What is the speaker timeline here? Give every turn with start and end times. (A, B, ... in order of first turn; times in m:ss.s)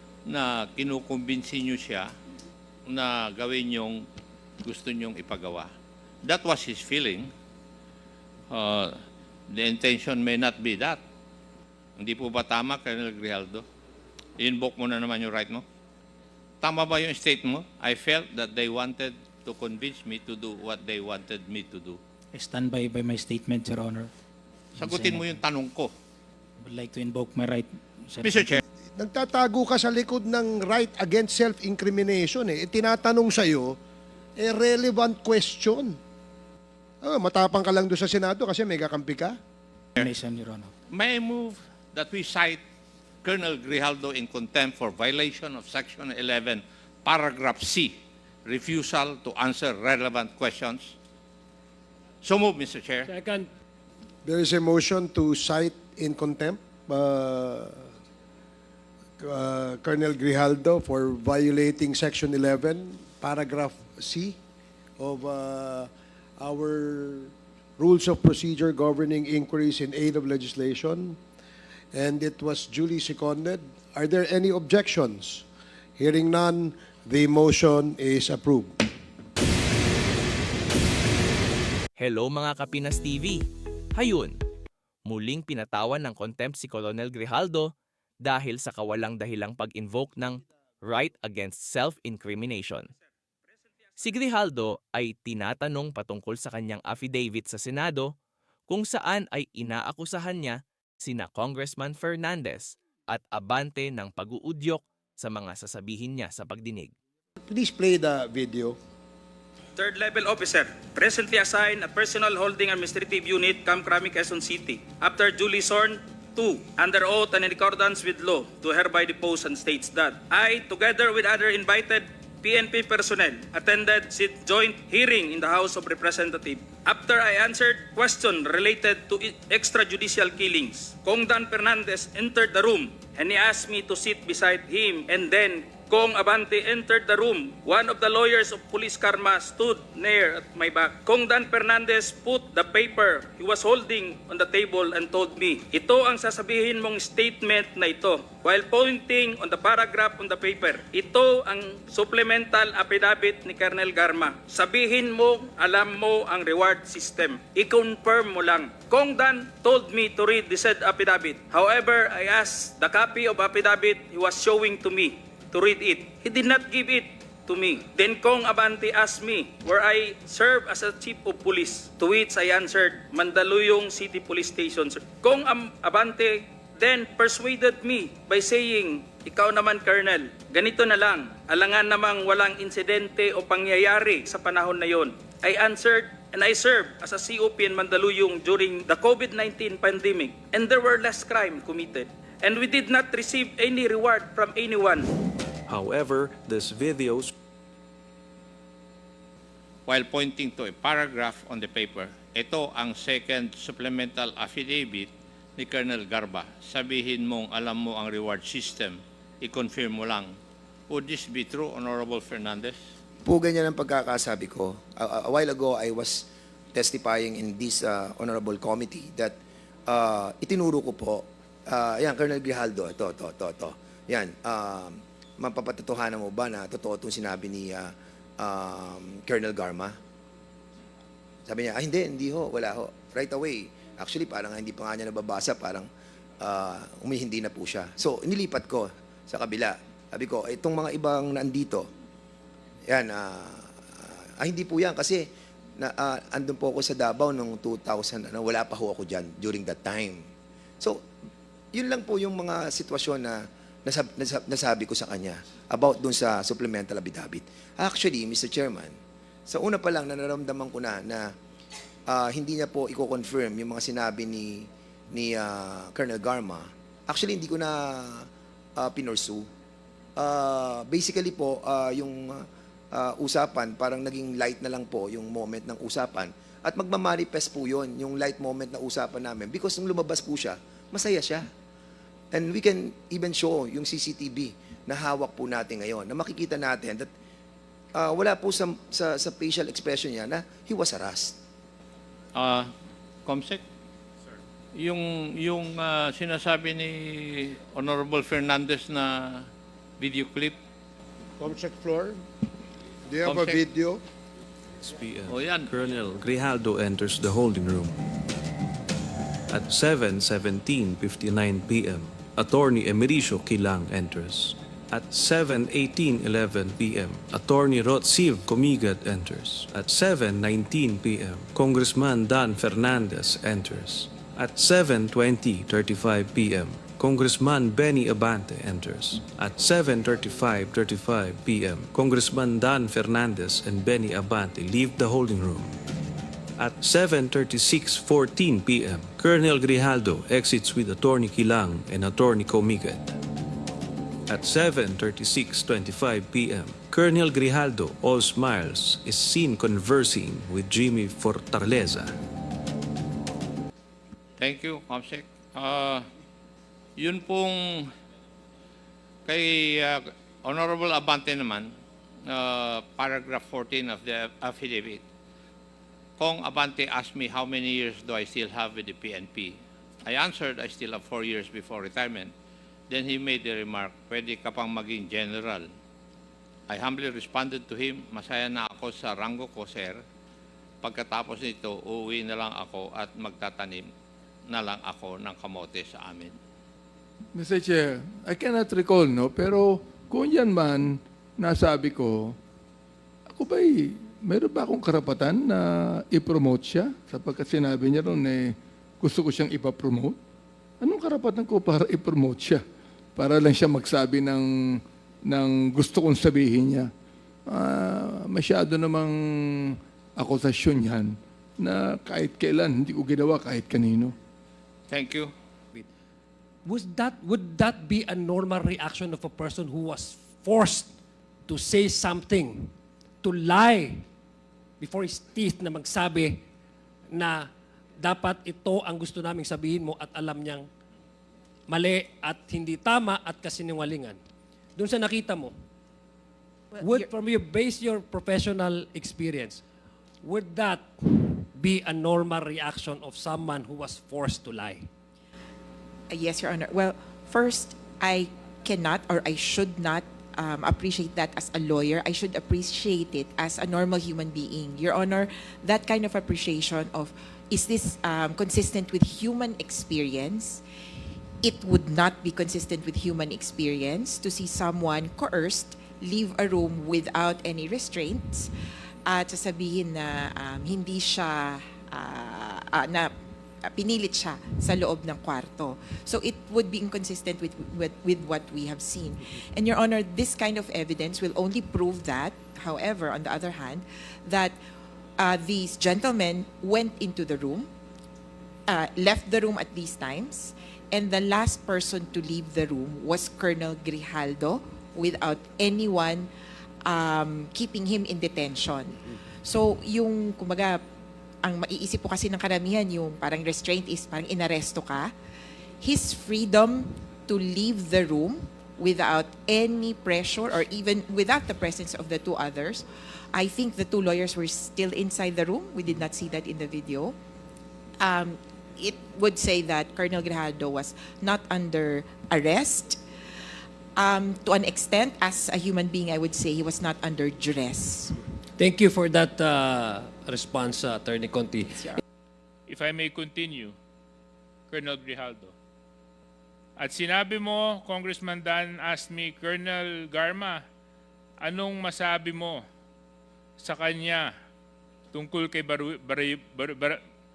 0:00.3-0:02.1 A
0:02.9-0:04.1 A
0:04.6-0:05.7 A
0:06.2-0:07.3 A
0:08.5-0:09.0 A
0:09.5-0:11.0 A
0:12.0-0:13.6 A
0:14.4-0:15.6 A
0:16.6-0:22.0 A
0:22.4-0:24.1 B
0:24.8-0:25.9 A
0:24.8-0:25.4 B
0:26.6-0:28.3 B
0:28.2-0:28.6 A
0:29.0-0:33.8 C
0:34.4-0:36.0 C
0:37.0-0:39.4 C
0:40.0-0:40.7 B
0:40.9-0:42.6 A
0:43.2-0:47.9 A
0:48.4-0:51.0 A
0:52.2-0:53.1 A
0:53.1-0:53.5 D
0:54.2-0:57.9 C
0:59.2-1:04.4 C
1:05.0-1:11.2 C
1:11.9-1:15.4 C
1:16.0-1:18.7 C
1:22.0-1:23.4 E
1:24.0-1:24.4 E
1:25.0-1:32.9 E
1:34.0-1:38.1 E
1:38.7-1:46.9 E
1:47.5-1:48.8 C
1:49.8-3:15.1 F
3:15.7-3:17.3 G
3:19.9-3:30.3 A
3:30.9-3:32.8 A
3:33.2-3:39.4 H
3:39.9-3:50.0 H
3:51.5-3:55.9 H
3:56.4-4:01.9 H
4:02.9-4:10.2 H
4:11.7-4:18.9 H
4:19.5-4:21.3 H
4:22.1-4:29.5 H
4:30.2-4:41.5 H
4:42.3-4:47.1 H
4:48.0-4:51.4 H
4:52.4-4:52.7 A
4:53.3-4:53.6 A
4:54.8-4:59.5 A
5:00.0-5:00.6 A
5:01.4-5:02.2 C
5:03.1-5:04.0 C
5:03.2-5:03.6 A
5:04.8-5:08.0 G
5:05.3-5:06.2 A
5:09.5-5:35.7 G
5:36.6-5:43.1 G
5:44.3-5:52.1 G
5:54.4-5:56.0 A
5:57.0-5:57.9 A
5:59.3-6:01.7 A
6:02.3-6:05.0 A
6:06.2-6:12.3 A
6:12.9-6:15.7 A
6:16.7-6:20.0 A
6:20.8-6:23.9 A
6:24.5-6:26.4 A
6:27.4-6:32.4 I
6:33.3-6:40.2 I
6:40.8-6:42.6 I
6:43.2-6:46.9 I
6:47.5-6:54.2 I
6:54.9-6:55.3 A
6:56.7-7:00.9 D
7:01.5-7:04.0 D
7:04.8-7:06.4 D
7:07.1-7:07.5 D
7:08.0-7:10.7 D
7:11.7-7:14.2 D
7:14.8-7:15.6 D
7:16.8-7:17.1 J
7:16.8-7:19.6 D
7:20.2-7:24.9 D
7:26.1-7:40.6 J
7:41.4-7:48.5 J
7:49.1-7:53.1 J
7:53.7-8:04.6 J
8:05.2-8:07.7 J
8:08.7-8:16.3 J
8:16.9-8:20.8 J
8:21.4-8:25.1 J
8:25.8-8:37.2 J
8:38.0-8:43.0 J
8:44.0-8:48.2 J
8:48.6-8:51.9 D
8:52.7-8:53.8 K
8:54.7-8:55.5 K
8:56.8-9:00.6 K
9:01.4-9:02.6 K
9:03.6-9:04.3 K
9:05.1-9:07.0 K